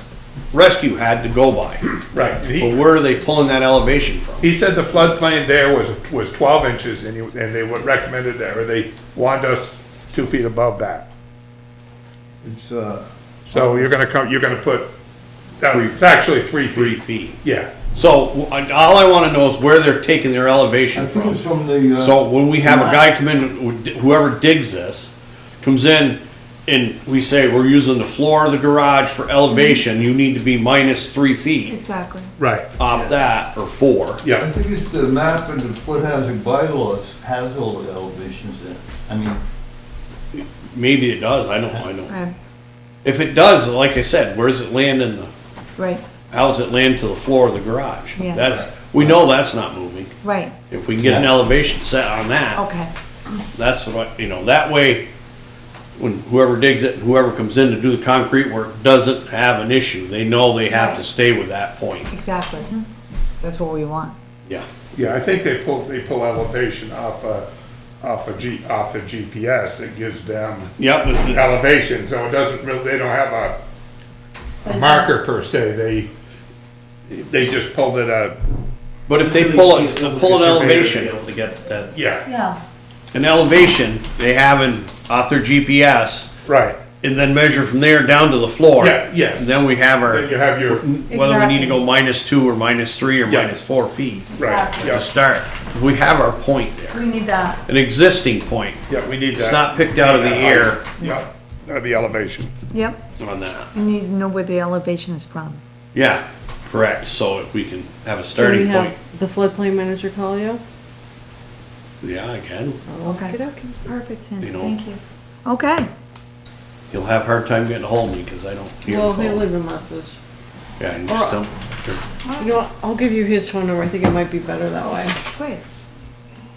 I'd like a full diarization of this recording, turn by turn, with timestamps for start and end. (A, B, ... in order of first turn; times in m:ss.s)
0:00.5-0:01.9 A
0:02.1-0:02.8 B
0:02.6-0:04.5 A
0:04.4-0:11.1 B
0:12.4-0:13.8 C
0:13.5-0:14.9 B
0:15.6-0:17.7 B
0:15.7-0:16.0 A
0:16.7-0:17.4 A
0:17.9-0:21.4 A
0:20.9-0:23.1 C
0:22.0-0:31.8 A
0:31.7-0:32.3 D
0:32.4-0:32.7 B
0:32.8-0:34.2 A
0:34.2-0:34.5 B
0:34.4-0:39.4 C
0:40.3-0:42.2 A
0:42.1-0:42.3 D
0:43.0-0:45.3 A
0:45.8-0:46.0 D
0:46.3-0:50.1 A
0:48.2-0:48.5 D
0:50.2-0:50.5 D
0:50.7-0:52.6 A
0:51.0-0:51.3 C
0:52.5-0:52.9 D
0:53.5-0:55.0 A
0:56.0-1:02.1 A
1:00.7-1:01.0 D
1:02.1-1:02.9 D
1:03.4-1:04.2 D
1:04.9-1:07.4 B
1:08.0-1:13.6 B
1:10.8-1:11.4 A
1:14.6-1:15.2 D
1:14.6-1:16.1 B
1:17.1-1:18.4 B
1:19.1-1:21.1 A
1:19.2-1:21.9 E
1:21.9-1:22.2 B
1:22.2-1:22.6 D
1:23.1-1:26.3 A
1:26.4-1:26.8 B
1:27.0-1:37.0 A
1:28.8-1:30.8 B
1:31.1-1:31.8 D
1:33.3-1:33.6 B
1:34.3-1:35.0 D
1:34.3-1:35.0 B
1:36.9-1:37.6 D
1:37.7-1:38.8 A
1:38.9-1:42.5 B
1:39.3-1:40.9 A
1:42.7-1:43.0 D
1:43.2-1:43.7 A
1:43.7-1:45.6 D
1:45.9-1:48.9 A
1:48.3-1:50.6 F
1:52.0-1:52.8 A
1:52.9-1:53.9 F
1:53.0-1:55.9 D
1:54.4-1:54.8 A
1:56.9-1:59.4 A
1:58.8-2:00.2 F
2:00.8-2:02.0 A
2:01.1-2:01.4 F
2:02.2-2:02.6 D
2:02.4-2:05.2 F
2:05.2-2:05.6 D